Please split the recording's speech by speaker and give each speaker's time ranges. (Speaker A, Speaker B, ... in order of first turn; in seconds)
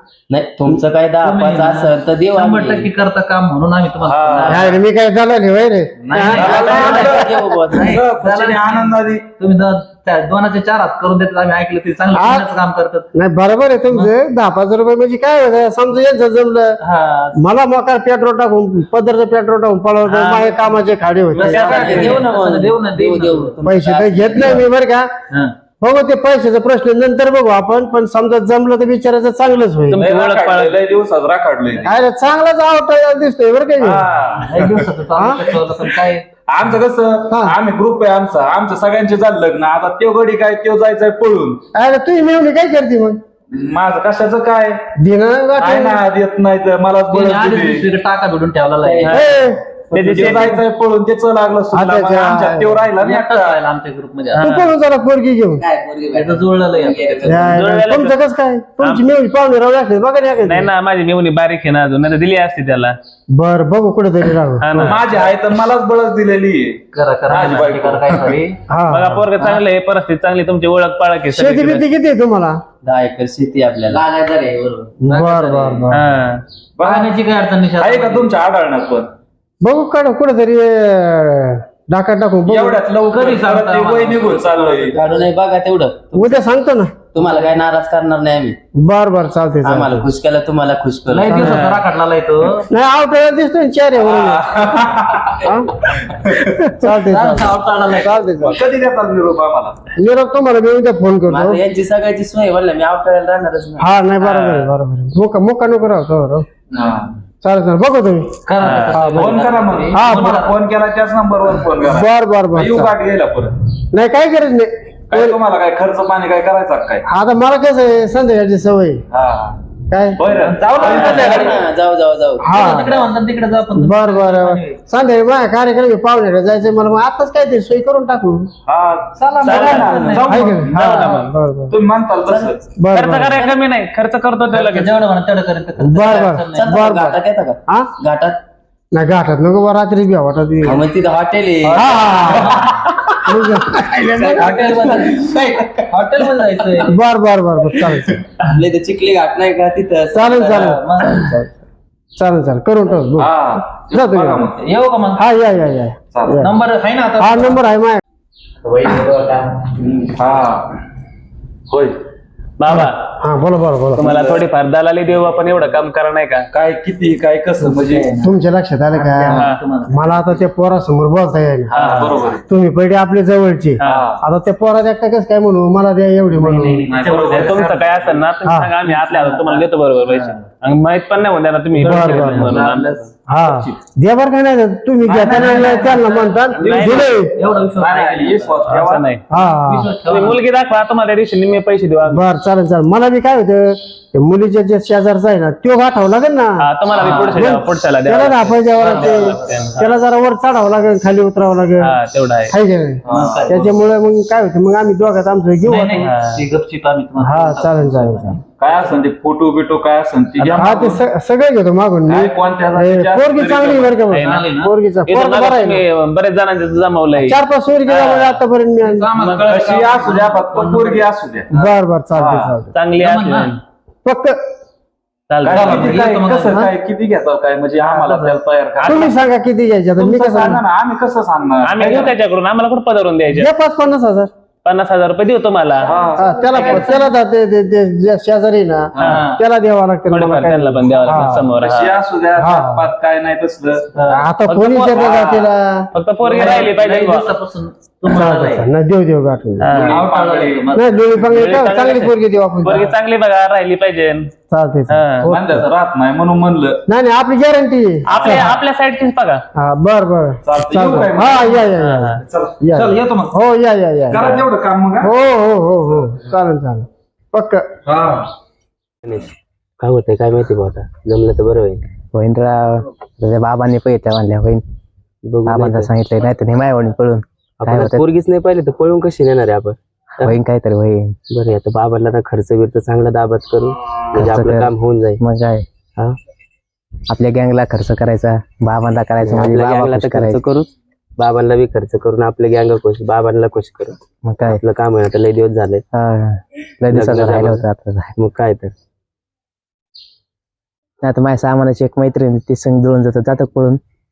Speaker A: 0.3-2.9, 6.3-8.0, 21.4-24.6, 48.8-49.2, 49.9-50.4, 55.6-57.5, 72.8-74.8, 84.9-86.4, 87.1-88.6, 89.6-91.4, 101.3-103.9, 120.9-122.5, 132.3-132.5, 136.5-138.4, 140.6-142.3, 143.7-145.7, 148.5-150.3, 269.0-271.8, 275.2-275.9, 277.6-280.4, 281.3-285.2, 289.2-294.0, 294.5-295.8, 296.9-297.6, 298.2-298.7
Speaker B: 0.7-4.8, 6.0-13.1, 16.9-17.3, 21.3-23.6, 24.3-24.6, 31.7-32.0, 34.4-36.2, 47.1-49.2, 53.0-54.5, 56.1-57.4, 65.0-65.3, 66.9-68.5, 74.4-75.9, 76.8-78.3, 83.1-84.9, 91.1-92.7, 97.0-98.4, 108.5-110.6, 120.4-121.5, 122.5-124.8, 129.2-131.3, 134.5-136.7, 144.3-147.0, 150.2-151.4, 154.6-155.4, 156.4-157.7, 167.6-170.4, 171.7-172.2, 176.3-178.0, 178.8-180.4, 181.8-183.1, 186.6-188.5, 189.4-190.4, 196.9-197.5, 198.8-199.8, 203.1-203.7, 205.6-209.1, 214.2-214.7, 218.8-221.2, 223.0-223.5, 225.5-226.6, 227.8-228.4, 239.0-239.4, 246.2-248.7, 249.8-251.1, 262.7-263.4
Speaker C: 4.0-4.7, 6.5-9.3, 29.9-31.9, 33.8-34.9, 36.5-41.6, 43.5-44.8, 45.8-47.9, 50.1-53.6, 64.8-68.4, 76.8-77.1, 77.8-79.0, 82.5-85.0, 94.0-96.8, 98.4-99.8, 106.7-107.1, 109.1-113.5, 115.1-117.0, 119.1-119.6, 120.2-121.6, 128.7-131.1, 131.7-132.6, 141.7-142.4, 153.2-154.6, 156.1-156.4, 159.7-160.7, 161.7-162.0, 164.0-164.4, 166.5-168.1, 171.7-172.4, 173.8-174.2, 176.8-177.8, 185.0-186.8, 187.8-189.1, 203.0-203.5, 208.6-211.0, 212.1-214.1, 219.5-221.5, 222.2-222.6, 225.4-229.1, 230.0-232.2, 235.8-236.4, 241.2-243.9, 244.9-245.5, 249.7-250.7, 255.2-256.8, 258.2-258.5, 260.4-261.7, 262.2-262.6, 264.1-265.1, 267.9-268.3
Speaker D: 4.4-6.6, 12.1-12.5, 13.1-16.8, 17.3-21.9, 23.6-25.1, 25.8-30.1, 31.8-34.1, 35.1-35.5, 37.3-37.6, 41.7-43.2, 45.0-46.0, 49.1-49.6, 51.7-52.9, 54.4-55.6, 57.2-60.7, 63.3-64.9, 68.7-69.2, 71.3-72.6, 75.0-76.0, 79.6-82.8, 86.1-87.0, 88.8-90.1, 91.2-91.6, 92.7-94.5, 95.4-95.8, 96.4-98.6, 99.9-101.6, 103.8-106.5, 107.4-109.3, 109.9-110.3, 111.8-113.0, 113.9-115.4, 117.1-119.0, 119.9-120.3, 122.4-123.1, 123.7-128.4, 129.5-131.8, 132.7-133.5, 135.8-137.9, 138.9-140.9, 141.8-142.6, 143.2-144.6, 146.8-148.2, 150.1-151.4, 152.2-154.5, 155.2-156.6, 157.2-158.0, 162.7-164.1, 168.2-176.9, 178.4-178.7, 181.8-182.7, 183.3-187.3, 189.3-189.9, 192.1-201.9, 202.5-206.1, 207.2-208.4, 210.4-215.8, 217.2-219.1, 221.5-222.7, 224.0-224.4, 228.8-230.6, 233.3-234.3, 236.1-241.6, 242.3-242.9, 244.0-245.9, 248.1-249.9, 250.7-252.9, 254.5-255.7, 256.9-258.6, 259.6-267.6
Speaker E: 20.0-20.5, 21.4-22.3, 29.9-30.8, 49.0-49.4, 49.9-50.6, 54.3-54.7, 57.5-58.2, 58.8-59.1, 60.4-63.0, 64.6-65.0, 68.9-71.8, 75.9-76.4, 91.4-91.8, 104.2-104.7, 108.6-109.0, 129.4-131.3, 132.9-134.9, 162.6-163.0, 163.9-166.5, 169.3-169.6, 171.7-172.2, 173.8-174.1, 177.3-183.1, 186.6-187.3, 188.6-189.2, 190.0-192.2, 196.6-199.9, 201.8-202.5, 206.0-206.4, 214.1-214.4, 215.1-218.4, 219.2-219.5, 222.7-223.6, 225.3-226.0, 231.6-233.5, 234.6-235.9, 236.5-237.0, 240.1-242.0, 244.4-245.2, 245.9-247.3, 249.6-250.1, 251.3-254.3, 254.9-255.3, 258.1-259.4, 261.8-262.2
Speaker F: 272.1-274.6, 275.4-278.0, 280.2-281.2, 284.1-285.6, 287.1-290.4, 294.2-294.6, 295.9-298.1, 301.0-303.8